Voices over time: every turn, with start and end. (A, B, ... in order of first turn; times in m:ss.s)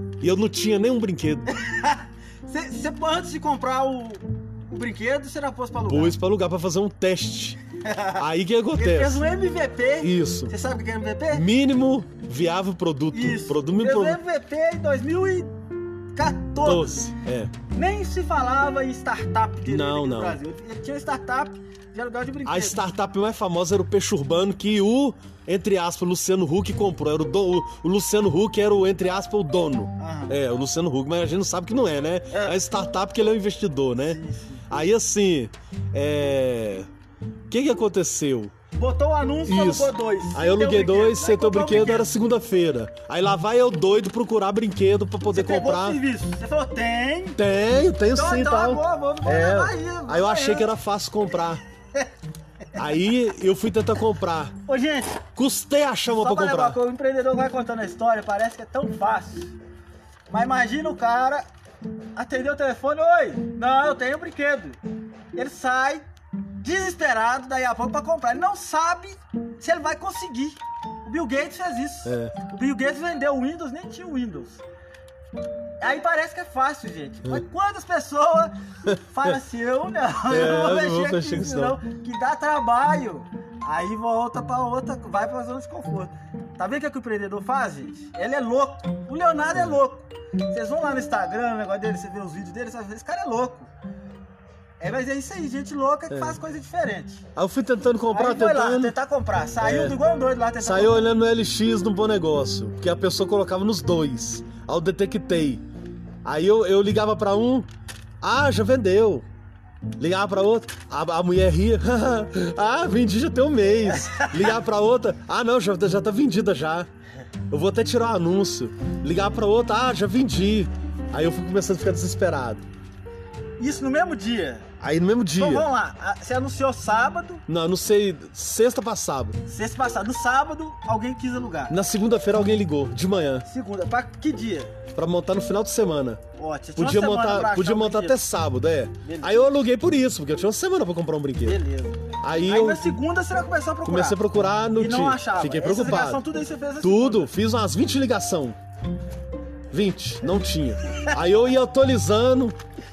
0:00.2-0:01.6 A
0:01.5-0:06.2 B
0:05.9-0:07.6 A
0:07.8-0:08.2 B
0:08.2-0:09.2 A
0:08.8-0:11.5 B
0:10.0-0:10.5 A
0:11.3-0:14.2 A
0:13.1-0:15.5 B
0:16.1-0:17.0 B
0:16.6-0:17.5 A
0:17.7-0:22.8 B
0:19.6-0:20.4 A
0:22.4-0:36.9 A
0:30.0-0:30.4 B
0:32.3-0:32.6 B
0:34.0-0:34.7 B
0:37.5-0:38.5 A
0:38.7-0:42.1 B
0:39.5-0:46.0 A
0:45.3-0:47.4 B
0:47.4-0:51.6 A
0:48.1-0:50.7 B
0:52.8-0:54.6 A
0:54.6-0:55.2 B
0:55.4-0:56.8 A
0:56.1-0:59.5 B
1:00.3-1:01.4 B
1:02.2-1:04.8 B
1:05.4-1:06.0 B
1:06.6-1:14.6 B
1:12.0-1:12.4 A
1:15.8-1:18.6 B
1:18.9-1:19.4 A
1:19.1-1:33.7 B
1:20.3-1:21.8 A
1:34.8-1:37.2 B
1:36.1-1:36.4 A
1:37.4-1:39.0 A
1:38.1-1:41.1 B
1:39.6-1:40.0 A
1:40.6-1:45.6 A
1:46.2-1:47.7 A
1:48.2-1:49.2 A
1:50.0-1:56.9 A
1:53.9-1:54.6 B
1:57.5-2:02.6 A
2:03.6-2:04.7 B
2:04.8-2:05.7 A
2:05.4-2:07.4 B
2:07.5-2:09.4 A
2:09.5-2:11.8 B
2:11.7-2:13.5 A
2:13.5-2:14.8 B
2:15.0-2:16.2 A
2:16.4-2:18.2 B
2:16.8-2:21.6 A
2:19.0-2:19.4 B
2:21.4-2:24.2 B
2:22.2-2:22.8 A
2:23.8-2:26.2 A
2:24.7-2:27.3 B
2:26.8-2:28.6 A
2:29.7-2:32.6 A